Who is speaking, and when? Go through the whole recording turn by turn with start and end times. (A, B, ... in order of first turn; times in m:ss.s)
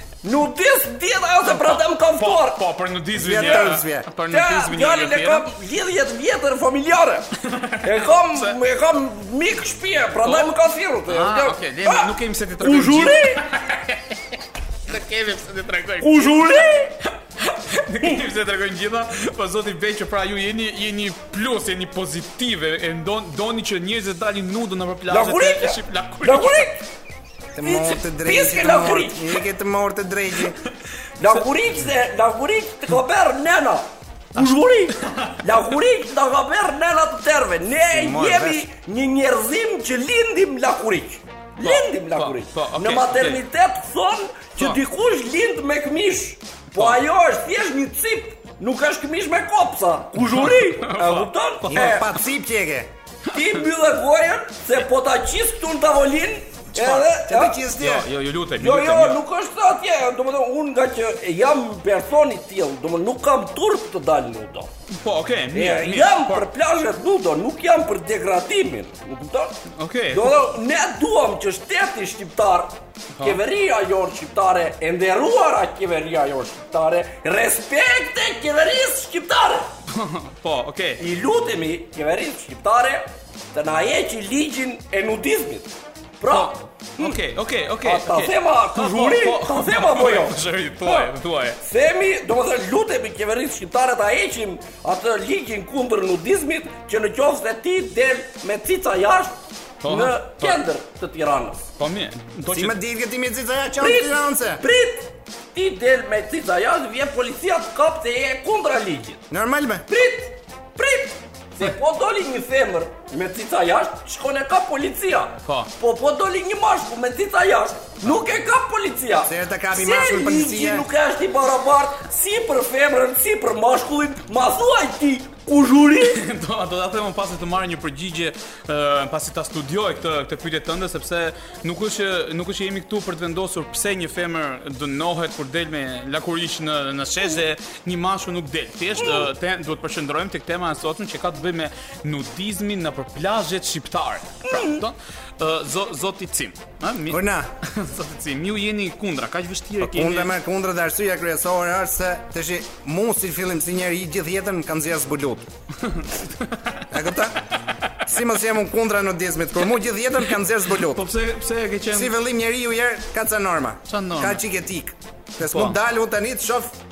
0:00.2-0:02.6 A
0:01.5-0:05.5 B
0:03.2-0:04.1 C
0:03.4-0:03.7 A
0:04.3-0:07.3 A
0:07.4-0:08.5 B
0:07.8-0:13.4 A
0:10.2-0:10.5 B
0:11.1-0:16.7 B
0:16.0-0:17.0 A
0:17.4-0:26.7 B
0:25.1-0:26.8 A
0:27.5-0:30.6 C
0:27.6-0:29.4 A
0:31.2-0:52.1 A
0:34.4-0:35.4 B
0:37.9-0:38.7 C
0:41.6-0:43.4 B
0:50.3-0:52.1 B
0:51.7-0:52.9 C
0:53.3-0:57.6 A
0:56.8-0:57.1 B
0:57.1-0:58.1 C
0:57.7-0:59.2 B
0:58.6-1:04.7 A
1:04.9-1:06.5 B
1:05.5-1:09.6 A
1:09.8-1:10.3 B
1:10.1-1:19.7 A
1:19.9-1:21.0 B
1:21.0-1:27.2 A
1:26.3-1:31.6 B
1:27.8-1:41.7 A
1:39.8-1:40.6 B
1:41.8-1:42.8 B
1:42.5-1:44.6 C
1:43.8-1:49.2 A
1:49.3-1:49.9 C
1:49.9-2:06.2 A
1:55.4-1:55.7 B
1:59.2-2:00.9 C
2:06.0-2:30.3 B
2:19.0-2:19.3 A
2:24.4-2:24.8 A
2:27.1-2:27.5 C
2:29.8-2:35.4 C
2:35.9-2:36.8 B
2:36.9-2:37.4 C
2:38.0-2:41.0 C
2:40.7-2:42.1 B
2:41.9-2:46.7 C
2:43.9-2:44.4 B
2:45.4-2:45.8 B